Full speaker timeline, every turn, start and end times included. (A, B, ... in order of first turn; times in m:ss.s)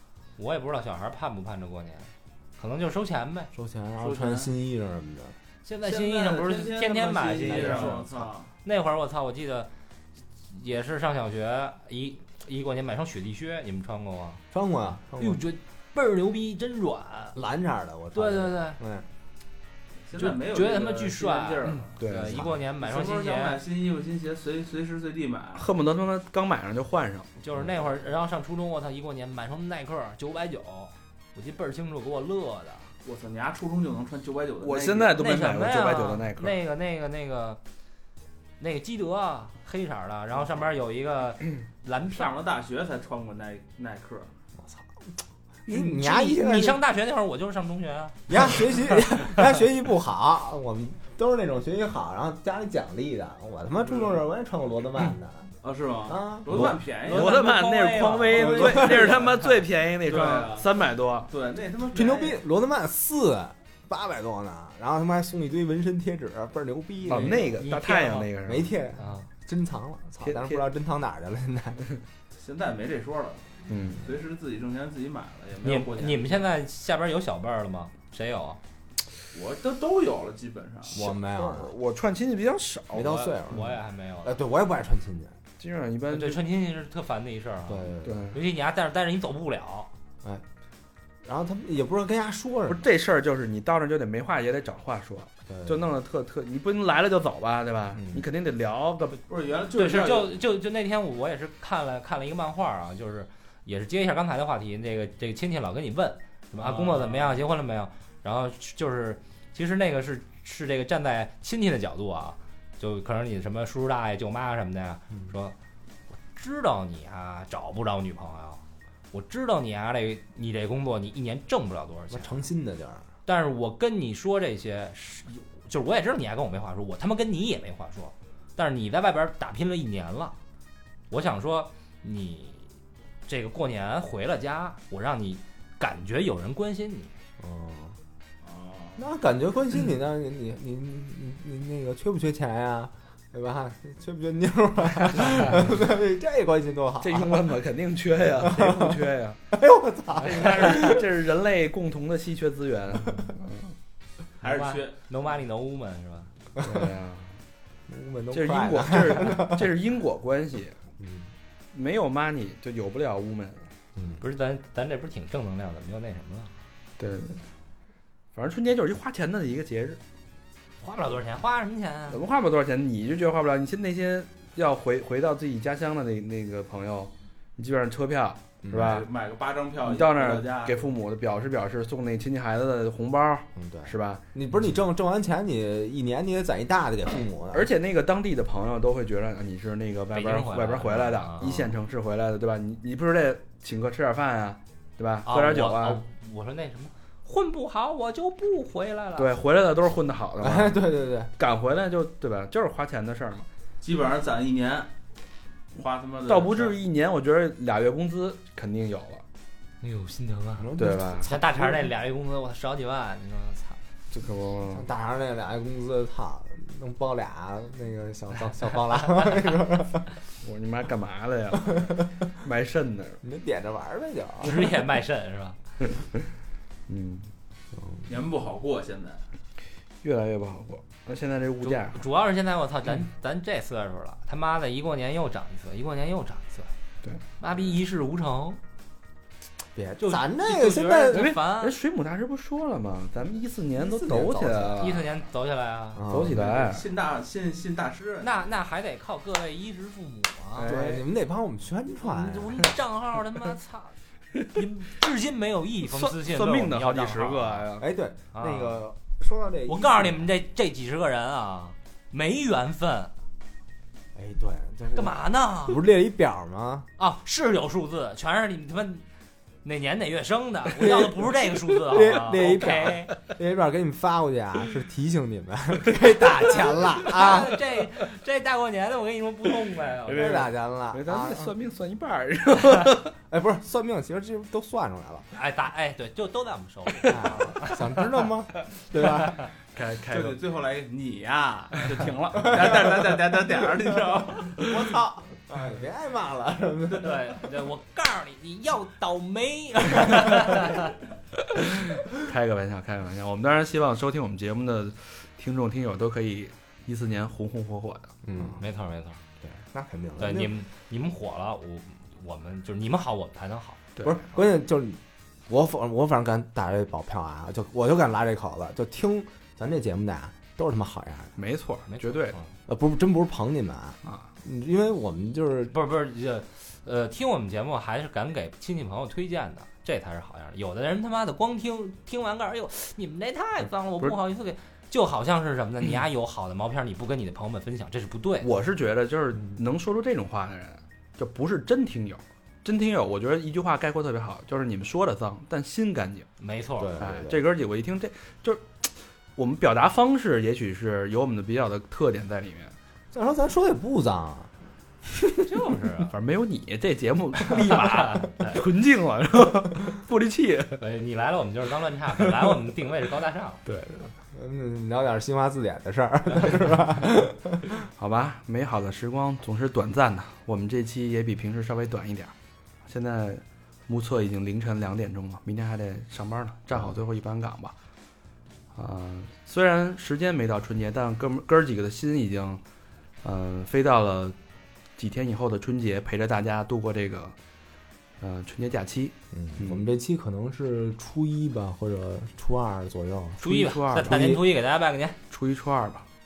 0:00.4-0:03.5 A
0:03.5-0:05.4 B
0:04.0-0:04.5 C
0:05.6-0:09.7 A
0:05.8-0:08.5 C
0:07.5-0:08.0 D
0:10.5-0:14.4 A
0:14.5-0:15.4 B
0:15.2-0:17.4 A
0:17.4-0:19.1 B
0:18.1-0:18.8 A
0:20.1-0:22.0 C
0:20.2-0:23.6 A
0:21.7-0:22.4 D
0:22.3-0:22.6 B
0:22.7-0:25.7 C
0:25.6-0:27.3 D
0:27.4-0:32.9 A
0:33.0-0:35.2 C
0:34.6-0:36.6 D
0:35.2-0:37.6 A
0:38.6-0:42.3 A
0:42.1-0:44.3 C
0:44.6-0:45.1 B
0:45.7-0:46.8 B
0:45.7-0:49.3 A
0:48.3-0:55.5 B
0:55.6-0:57.4 C
0:56.1-0:56.8 B
0:56.5-1:01.3 D
0:57.0-0:59.5 A
0:58.4-0:59.1 B
0:58.8-0:59.1 C
1:00.0-1:00.7 C
1:01.3-1:02.4 C
1:01.9-1:07.6 B
1:07.0-1:08.7 D
1:07.6-1:08.3 A
1:08.4-1:11.8 B
1:09.0-1:09.3 A
1:10.2-1:10.6 D
1:12.3-1:16.4 C
1:13.7-1:14.0 D
1:15.6-1:18.6 A
1:19.3-1:21.0 C
1:20.9-1:21.8 B
1:21.0-1:23.2 D
1:22.9-1:25.4 B
1:23.0-1:24.3 A
1:25.6-1:26.4 D
1:26.1-1:29.9 A
1:27.7-1:28.3 B
1:28.0-1:28.4 D
1:31.2-1:32.8 B
1:32.7-1:39.2 D
1:35.5-1:35.8 B
1:38.0-1:38.2 B
1:39.3-1:40.4 C
1:39.8-1:55.6 A
1:46.6-1:47.4 C
1:56.3-2:02.4 A
2:02.1-2:03.1 B
2:03.3-2:10.4 A
2:11.1-2:12.7 A
2:13.3-2:17.1 A
2:17.4-2:18.0 B
2:18.4-2:19.1 C
2:19.0-2:27.5 B
2:27.0-2:29.4 D
2:28.4-2:29.0 B
2:29.5-2:31.0 B
2:30.2-2:33.7 D
2:34.4-2:35.0 C
2:34.4-2:36.3 A
2:36.6-2:37.4 D
2:37.9-2:39.7 B
2:38.3-2:40.8 D
2:41.0-2:41.3 B
2:41.7-2:43.7 D
2:44.2-2:46.6 A
2:47.0-2:47.4 D
2:48.3-2:50.0 D
2:50.8-2:52.2 A
2:52.1-2:59.1 D
2:58.6-2:59.1 B
2:58.7-3:00.9 C
2:59.8-3:04.2 D
3:03.6-3:07.7 B
3:07.5-3:16.0 D
3:10.1-3:11.6 A
3:15.3-3:19.4 A
3:19.2-3:20.9 D
3:20.4-3:21.3 B
3:21.4-3:23.5 D
3:23.8-3:24.9 C
3:25.8-3:26.8 C
3:26.3-3:29.2 D
3:29.8-3:33.8 A
3:30.6-3:31.2 B
3:30.8-3:31.7 D
3:34.1-3:34.9 D
3:34.7-3:40.1 B
3:39.0-3:39.5 A
3:40.4-3:43.2 D
3:43.2-3:44.7 B
3:44.4-3:45.6 A
3:46.9-3:47.3 D
3:48.1-3:49.2 C
3:50.0-3:52.0 D
3:51.6-3:56.7 A
3:57.4-3:58.6 A
3:59.8-4:01.3 B
4:00.0-4:01.8 A
4:01.1-4:05.1 D
4:03.8-4:04.9 B
4:04.8-4:06.0 A
4:06.0-4:06.4 B
4:06.1-4:06.9 D
4:06.3-4:08.5 C
4:08.2-4:10.7 A
4:10.6-4:11.1 D
4:10.7-4:12.6 B
4:12.0-4:14.0 A
4:14.5-4:17.7 A
4:15.8-4:17.9 D
4:17.8-4:20.3 B
4:18.3-4:18.8 A
4:19.7-4:23.1 A
4:24.2-4:26.9 B
4:25.0-4:25.8 A
4:27.0-4:29.0 A
4:29.6-4:33.2 A
4:30.7-4:37.6 B
4:36.2-4:40.5 A
4:40.1-4:43.1 D
4:40.1-4:41.5 B
4:43.3-4:45.3 B
4:45.3-4:48.0 A
4:47.1-4:49.4 B
4:49.7-4:50.4 D
4:50.1-4:54.6 C
4:52.4-4:52.9 B
4:54.6-4:57.4 B
4:57.0-5:00.9 A
5:01.6-5:08.1 D
5:08.3-5:08.6 B
5:08.6-5:09.2 A
5:09.4-5:10.5 B
5:10.2-5:13.8 A
5:14.0-5:21.4 B
5:21.4-5:22.4 D
5:21.9-5:22.5 A
5:22.7-5:25.8 B
5:25.7-5:38.5 A
5:38.4-5:46.3 D
5:46.4-5:47.0 A
5:46.8-5:47.4 B
5:47.0-5:52.7 D
5:53.1-5:54.5 B
5:55.0-5:55.4 B
5:55.4-5:56.1 A
5:56.1-6:00.8 D
5:57.5-5:58.6 A
6:00.8-6:03.6 A
6:03.7-6:04.1 D
6:04.3-6:07.8 B
6:07.8-6:12.3 D
6:12.8-6:17.7 D
6:18.8-6:22.6 D
6:23.2-6:24.4 D
6:25.0-6:27.4 D
6:28.2-6:29.1 D
6:29.3-6:33.4 B
6:33.4-6:34.4 D
6:33.4-6:35.2 A
6:34.0-6:34.4 B
6:35.3-6:36.0 D